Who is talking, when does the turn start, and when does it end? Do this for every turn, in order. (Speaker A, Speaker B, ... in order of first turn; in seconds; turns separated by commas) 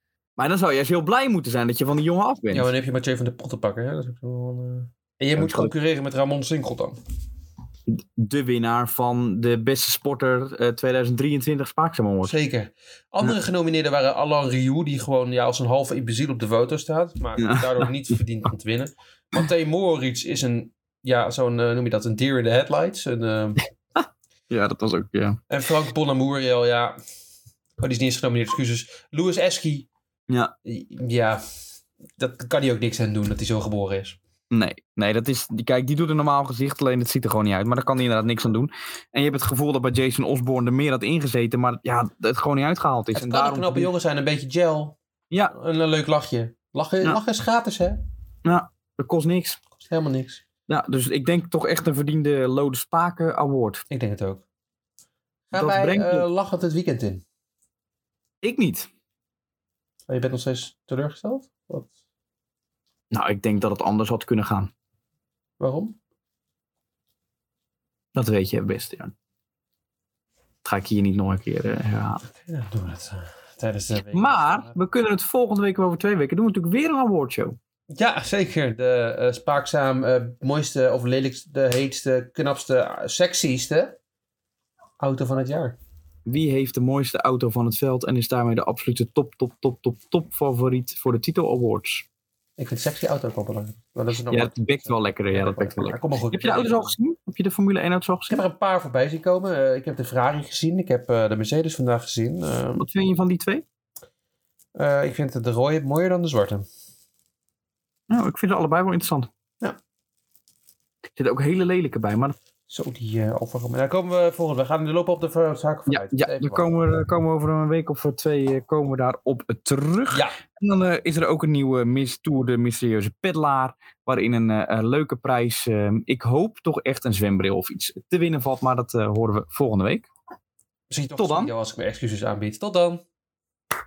Speaker A: 0.4-2.7, Speaker B: 2.5-7.0, Speaker A: 5.4-5.7, Speaker A: 7.9-12.3, Speaker B: 12.2-23.6, Speaker A: 17.4-17.9, Speaker A: 24.5-25.4, Speaker B: 25.5-27.0, Speaker B: 27.8-29.9, Speaker A: 30.3-30.5, Speaker B: 30.6-31.4, Speaker B: 32.2-34.2, Speaker A: 34.5-43.9, Speaker B: 43.1-45.0, Speaker B: 45.5-48.0, Speaker A: 48.4-49.6, Speaker B: 49.8-50.4, Speaker A: 50.7-53.8, Speaker B: 53.9-54.5, Speaker B: 55.5-57.2, Speaker A: 55.5-56.3, Speaker A: 58.4-58.9, Speaker B: 60.1-61.9, Speaker A: 63.1-64.7, Speaker B: 65.6-66.0, Speaker A: 68.2-69.1, Speaker A: 70.6-72.2, Speaker B: 72.3-74.8, Speaker A: 74.1-77.6, Speaker B: 77.9-84.0, Speaker B: 85.0-85.8, Speaker A: 86.3-92.1, Speaker B: 92.6-97.0, Speaker A: 94.3-98.4, Speaker B: 98.3-102.9, Speaker A: 102.8-103.7, Speaker B: 104.8-106.7, Speaker A: 108.1-109.3, Speaker A: 111.1-112.4, Speaker B: 112.7-116.7, Speaker A: 115.9-130.1, Speaker B: 120.1-120.4, Speaker B: 130.9-133.0, Speaker A: 131.2-131.5